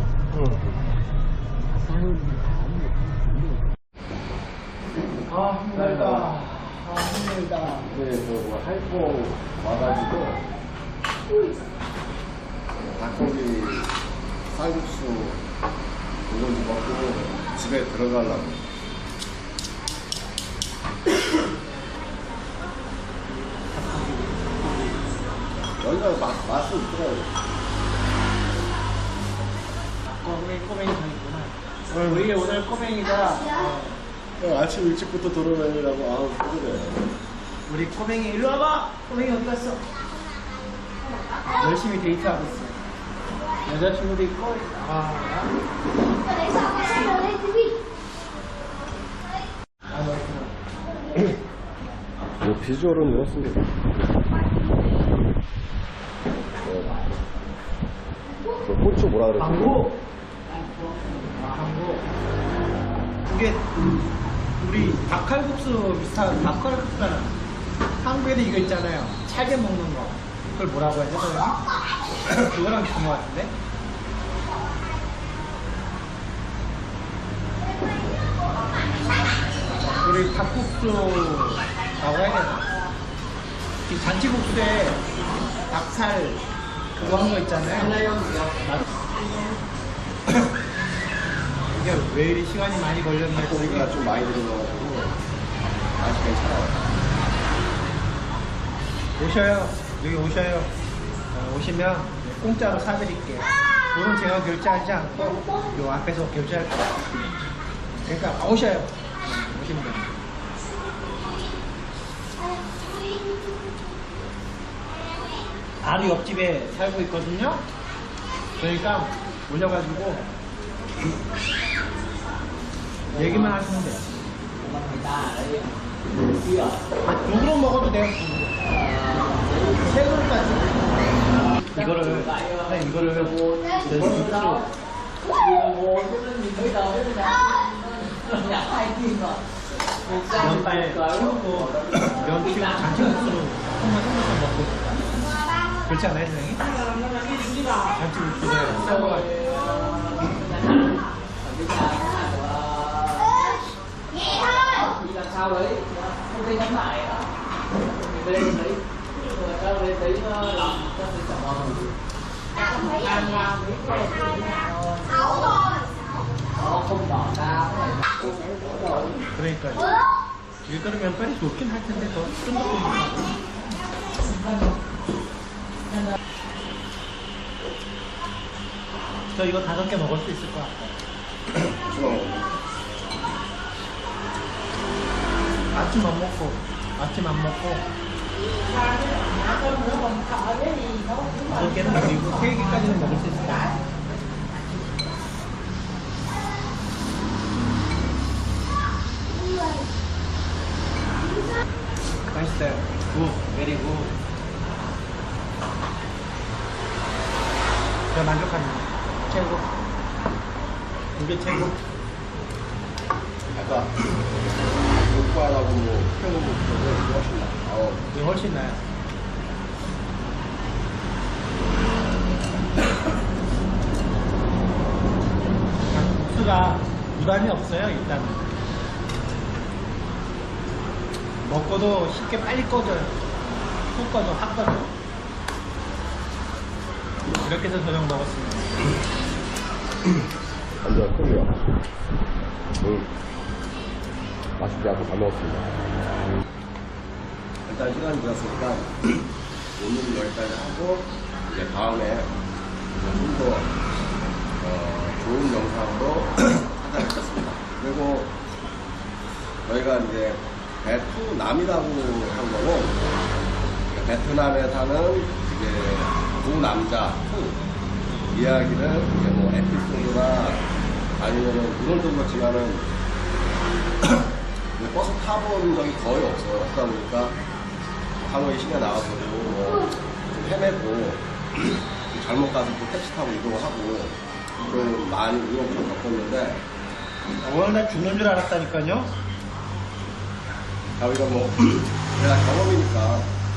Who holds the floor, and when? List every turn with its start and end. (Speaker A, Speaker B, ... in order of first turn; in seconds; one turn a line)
Speaker A: 0.3-0.8
Speaker B: 5.2-7.9
Speaker A: 5.7-6.4
Speaker A: 7.8-10.4
Speaker A: 12.9-13.9
Speaker A: 14.5-15.4
Speaker A: 16.3-18.6
Speaker B: 23.2-25.2
Speaker A: 25.8-27.3
Speaker B: 30.1-34.0
Speaker A: 34.4-37.0
Speaker B: 37.7-39.9
Speaker B: 41.5-42.8
Speaker B: 43.6-45.5
Speaker B: 49.9-50.5
Speaker A: 52.4-53.7
Speaker A: 56.6-57.0
Speaker A: 58.6-59.8
Speaker B: 59.4-60.0
Speaker B: 61.4-62.0
Speaker B: 63.2-63.7
Speaker B: 64.6-67.4
Speaker B: 68.0-71.6
Speaker B: 72.4-73.5
Speaker B: 80.0-82.7
Speaker B: 83.8-85.0
Speaker B: 85.7-86.4
Speaker B: 87.0-88.1
Speaker B: 91.7-94.0
Speaker A: 93.4-95.2
Speaker A: 96.0-96.8
Speaker B: 99.2-100.7
Speaker B: 101.3-107.0
Speaker B: 108.0-110.1
Speaker B: 115.8-117.6
Speaker B: 118.6-120.3
Speaker B: 123.1-124.0
Speaker C: 124.8-125.7
Speaker C: 126.4-126.8
Speaker B: 127.0-128.7
Speaker C: 129.2-129.5
Speaker B: 129.8-134.7
Speaker C: 135.4-139.4
Speaker C: 140.1-140.3
Speaker B: 140.3-145.1
Speaker B: 145.8-146.7
Speaker B: 147.8-149.3
Speaker C: 149.5-150.8
Speaker C: 151.4-153.4
Speaker C: 154.5-157.3
Speaker C: 158.2-161.9
Speaker C: 162.9-165.3
Speaker C: 166.6-169.1
Speaker B: 169.3-169.9
Speaker B: 170.6-173.3
Speaker B: 179.3-180.9
Speaker A: 181.6-182.4
Speaker B: 185.7-187.9
Speaker C: 189.0-191.3
Speaker B: 191.5-193.7
Speaker B: 202.3-204.1
Speaker B: 208.1-209.7
Speaker B: 211.2-211.8
Speaker A: 213.5-214.1
Speaker A: 214.9-218.1
Speaker B: 218.1-218.8
Speaker B: 225.9-228.5
Speaker B: 231.4-233.3
Speaker B: 233.9-234.9
Speaker B: 237.4-238.8
Speaker A: 240.8-241.6
Speaker A: 242.8-243.1
Speaker A: 244.6-245.7
Speaker A: 247.7-252.3
Speaker A: 252.9-253.8
Speaker A: 254.6-258.3
Speaker A: 259.6-263.0
Speaker A: 263.9-267.6
Speaker A: 268.3-270.6
Speaker A: 271.2-272.9
Speaker A: 274.8-277.4
Speaker A: 278.2-286.6
Speaker B: 287.4-289.1
Speaker A: 291.0-293.3